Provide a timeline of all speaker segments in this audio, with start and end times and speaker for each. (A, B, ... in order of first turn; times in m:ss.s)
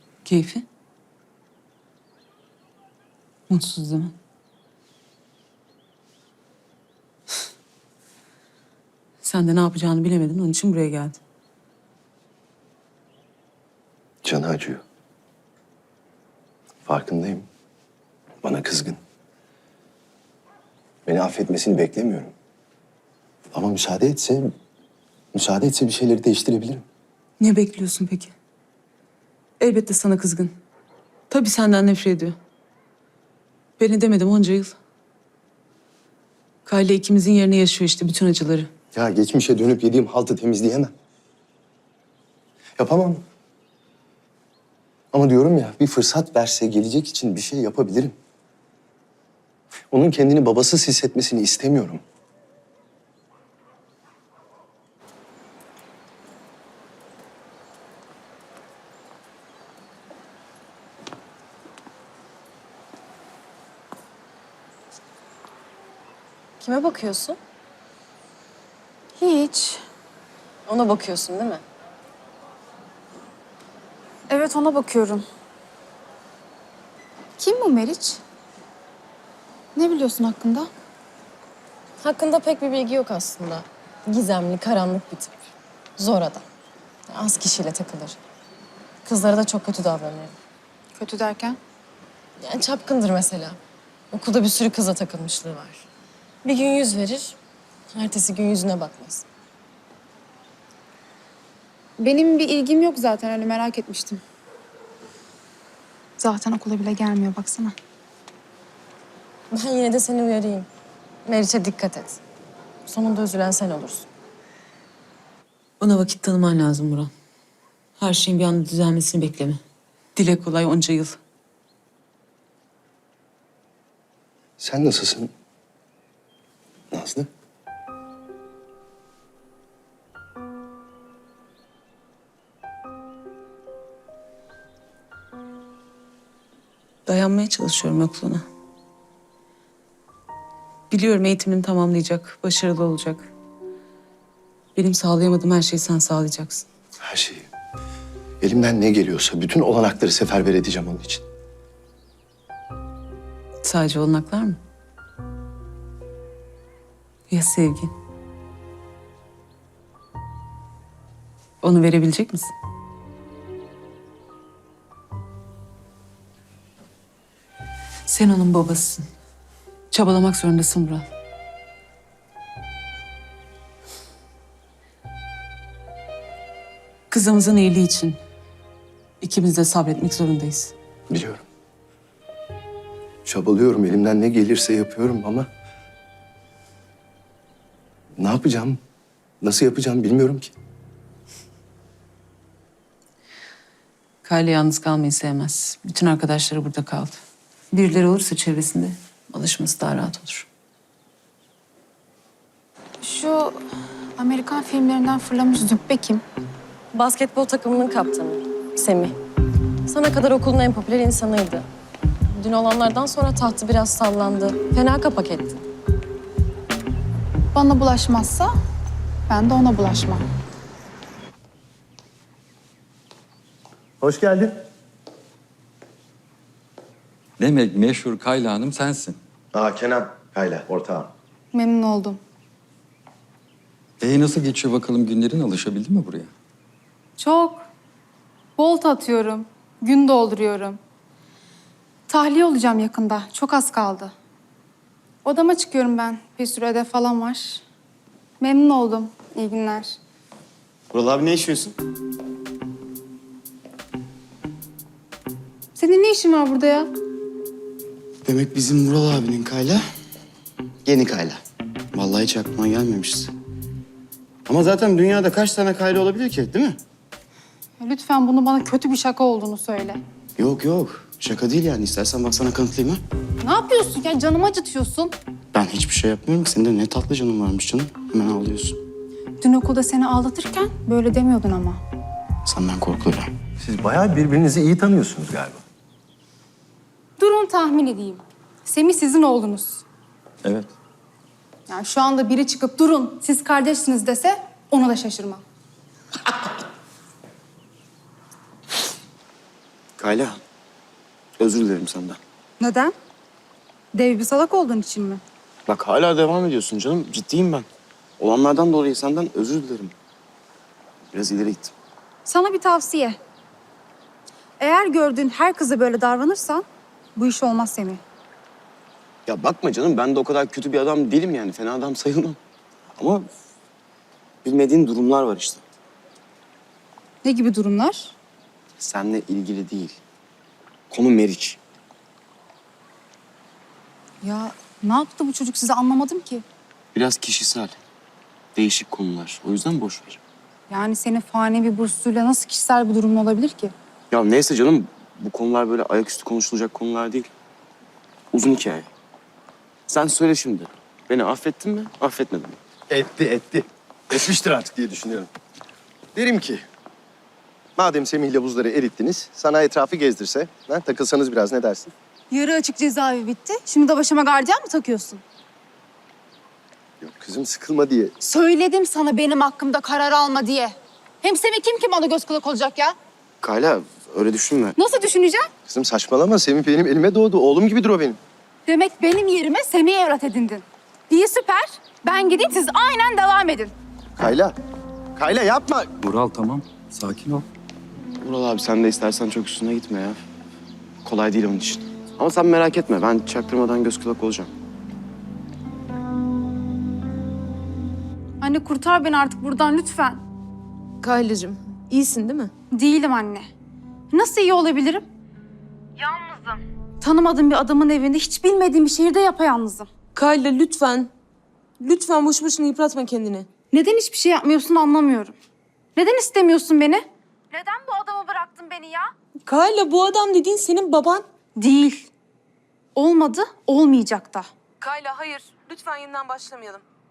0:00.2-0:00.6 A
0:03.5-0:04.2 A
0:09.2-0:11.2 A
0:14.2-0:14.8 B
0:16.8-0:17.5 B
0:18.4-0:19.0 B
0:21.1-0:22.3 B
0:23.5-0:24.5 B
0:25.3-0:26.8 B
0:27.4-0:28.3 A
0:29.6-0:30.6 A
0:31.3-0:32.4 A
0:33.8-0:34.8 A
0:36.7-0:38.7 A
0:38.9-0:40.9 B
0:42.8-0:43.2 B
0:45.1-0:48.2 B
0:49.9-0:52.0 B
1:06.6-1:07.4 C
1:09.2-1:09.8 D
1:10.7-1:11.6 C
1:14.3-1:15.2 D
1:17.4-1:18.2 D
1:19.8-1:20.7 D
1:22.0-1:25.4 C
1:26.0-1:26.4 C
1:27.1-1:28.2 C
1:29.0-1:30.3 C
1:31.0-1:31.6 D
1:32.4-1:33.6 C
1:34.1-1:35.8 C
1:36.4-1:37.4 C
1:37.9-1:39.2 C
1:42.0-1:44.2 D
1:46.2-1:47.8 D
1:49.5-1:50.7 C
1:51.2-1:52.2 C
1:52.9-1:54.1 C
1:55.8-1:57.1 A
1:58.0-1:59.6 A
2:00.2-2:01.2 A
2:04.6-2:05.3 B
2:06.9-2:07.3 B
2:17.1-2:18.4 A
2:20.9-2:23.3 A
2:24.8-2:26.6 A
2:27.0-2:27.5 B
2:28.4-2:31.2 B
2:33.6-2:34.6 A
2:37.3-2:37.9 A
2:41.6-2:42.5 A
2:48.1-2:49.1 A
2:49.9-2:51.0 A
2:57.1-2:58.2 A
2:59.2-3:00.7 A
3:01.1-3:01.4 B
3:03.2-3:05.5 B
3:08.2-3:08.8 B
3:09.4-3:10.5 B
3:14.2-3:20.5 A
3:23.0-3:23.6 D
3:24.2-3:26.2 D
3:26.9-3:29.2 C
3:29.9-3:31.6 C
3:32.3-3:35.6 C
3:37.5-3:38.5 D
3:39.3-3:40.2 D
3:44.0-3:44.6 B
3:47.4-3:49.2 E
3:49.5-3:51.1 B
3:51.5-3:52.2 D
3:54.0-3:56.3 E
3:57.2-3:57.6 D
3:58.6-4:00.8 D
4:02.1-4:04.1 D
4:05.2-4:07.6 D
4:08.4-4:10.0 D
4:10.9-4:11.8 F
4:15.8-4:16.9 D
4:18.2-4:19.8 F
4:20.8-4:21.4 F
4:21.9-4:23.3 F
4:24.5-4:26.8 F
4:27.8-4:30.0 D
4:30.4-4:33.0 F
4:33.4-4:35.1 D
4:35.5-4:38.8 F
4:39.4-4:41.8 D
4:42.4-4:43.3 F
4:43.6-4:45.6 B
4:47.2-4:49.8 D
4:50.4-4:50.7 E
4:51.7-4:55.4 D
5:00.0-5:00.4 F
5:01.4-5:02.2 F
5:02.6-5:03.0 D
5:03.9-5:05.2 D
5:05.7-5:07.7 F
5:08.2-5:09.9 F
5:11.1-5:11.7 F
5:12.2-5:13.2 D
5:14.6-5:16.6 D
5:17.2-5:18.0 D
5:19.2-5:22.4 F
5:23.0-5:23.3 F
5:24.4-5:25.6 F
5:27.2-5:28.1 D
5:28.8-5:30.0 F
5:30.9-5:31.6 F
5:34.2-5:36.4 D
5:36.9-5:37.8 F
5:38.6-5:40.2 F
5:40.7-5:43.8 D
5:44.1-5:47.3 F
5:48.3-5:48.9 F
5:49.9-5:52.6 F
5:52.9-5:55.3 B
5:56.1-5:56.6 B
5:57.8-6:01.9 B
6:02.3-6:05.2 D
6:07.0-6:08.1 B
6:08.2-6:13.0 D
6:13.4-6:14.8 F
6:14.8-6:15.5 D
6:15.6-6:18.2 B
6:18.6-6:23.7 D
6:24.2-6:24.6 B
6:25.2-6:25.9 B
6:26.0-6:27.5 E
6:28.2-6:30.2 F
6:31.0-6:34.5 F
6:38.4-6:40.2 D
6:41.0-6:42.5 G
6:42.7-6:43.5 D
6:44.1-6:45.0 D
6:46.0-6:49.9 D
6:50.1-6:51.1 G
6:51.8-6:53.5 G
6:53.7-6:55.4 D
6:56.0-6:59.1 D
6:59.4-7:01.2 G
7:01.6-7:02.1 D
7:03.0-7:04.5 D
7:04.8-7:06.8 G